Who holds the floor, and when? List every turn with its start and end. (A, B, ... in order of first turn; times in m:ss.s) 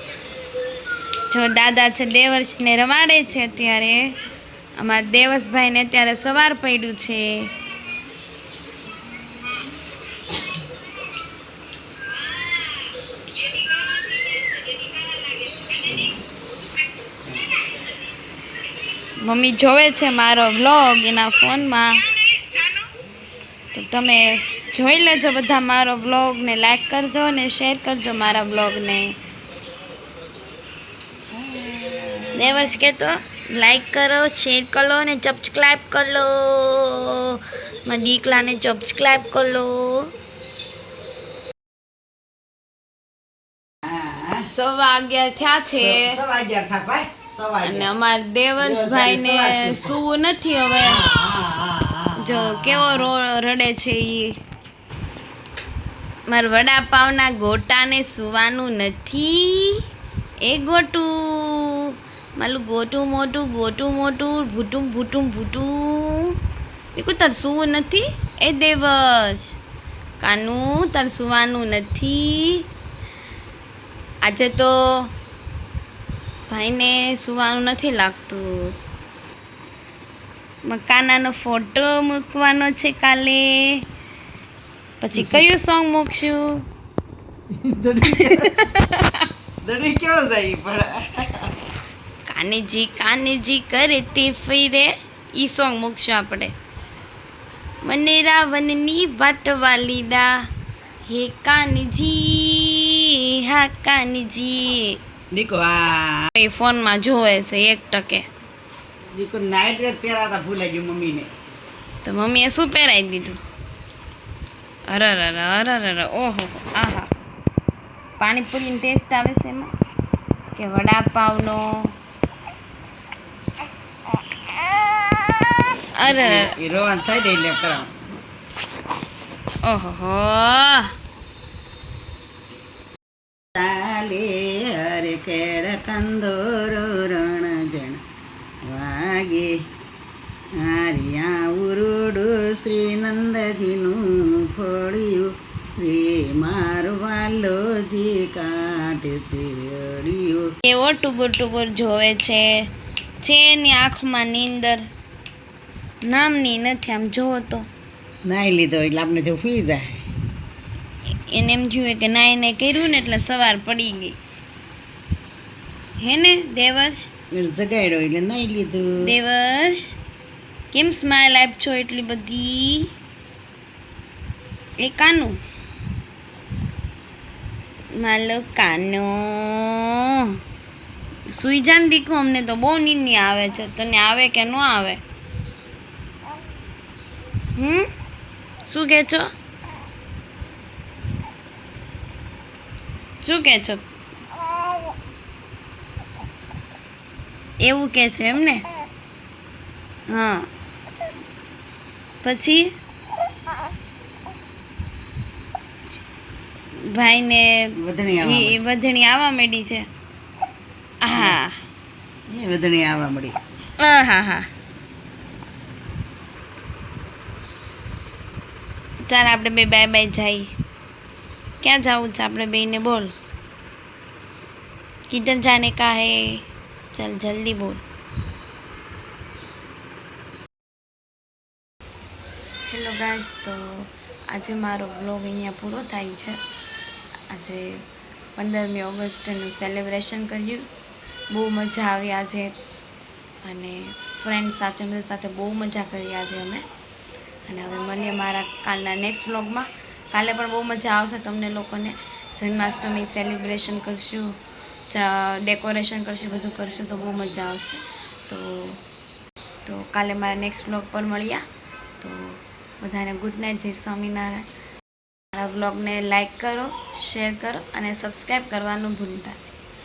0:01.3-0:04.0 A
0:04.8-0:07.5 A
0:19.2-0:22.0 A
0:23.7-0:29.2 A
0:31.3-0:32.6 B
0:32.3-0:40.1 A
0:43.8-0:44.4 B
0:44.5-0:46.2 A
0:45.8-0:47.9 B
0:47.6-0:51.0 A
0:48.6-0:50.0 B
0:50.8-0:53.1 B
0:52.2-0:54.3 A
0:56.3-0:59.8 A
1:00.4-1:06.3 A
1:06.9-1:09.5 A
1:10.2-1:12.6 A
1:14.2-1:15.1 A
1:16.5-1:18.7 A
1:20.6-1:23.8 A
1:25.0-1:26.6 A
1:27.5-1:28.6 B
1:28.2-1:29.2 A
1:29.6-1:31.5 B
1:32.2-1:36.5 A
1:37.8-1:40.3 A
1:41.1-1:45.0 A
1:45.3-1:46.3 B
1:46.4-1:48.2 A
1:49.1-1:51.3 B
1:52.0-1:53.4 A
1:54.9-1:57.1 A
1:58.2-1:59.7 A
2:00.5-2:01.9 A
2:05.9-2:06.5 A
2:06.0-2:07.9 B
2:09.6-2:10.9 A
2:13.5-2:18.0 B
2:18.6-2:19.5 B
2:20.6-2:30.5 B
2:30.6-2:32.5 A
2:33.2-2:34.8 A
2:36.0-2:37.7 A
2:38.2-2:39.9 B
2:41.3-2:44.2 A
2:46.0-2:47.1 A
2:47.3-2:49.0 B
2:49.0-2:50.0 A
2:50.7-2:52.9 A
2:54.8-2:55.4 A
2:57.9-3:00.4 A
3:01.3-3:05.0 A
3:07.6-3:07.9 A
3:08.6-3:09.3 A
3:13.2-3:13.8 A
3:17.6-3:18.6 A
3:20.1-3:20.5 A
3:22.2-3:22.7 A
3:26.8-3:29.8 A
3:27.8-3:28.6 B
3:31.0-3:31.6 A
3:32.3-3:33.4 B
3:33.8-3:34.5 A
3:39.0-3:40.5 A
3:41.6-3:43.1 A
3:45.1-3:46.4 A
3:46.9-3:47.8 A
3:52.7-3:56.4 A
3:57.3-3:57.8 A
3:58.4-4:00.6 A
4:01.3-4:02.5 A
4:03.4-4:06.6 A
4:07.5-4:14.3 A
4:14.9-4:18.8 A
4:19.6-4:21.4 A
4:22.0-4:24.4 A
4:25.3-4:29.5 A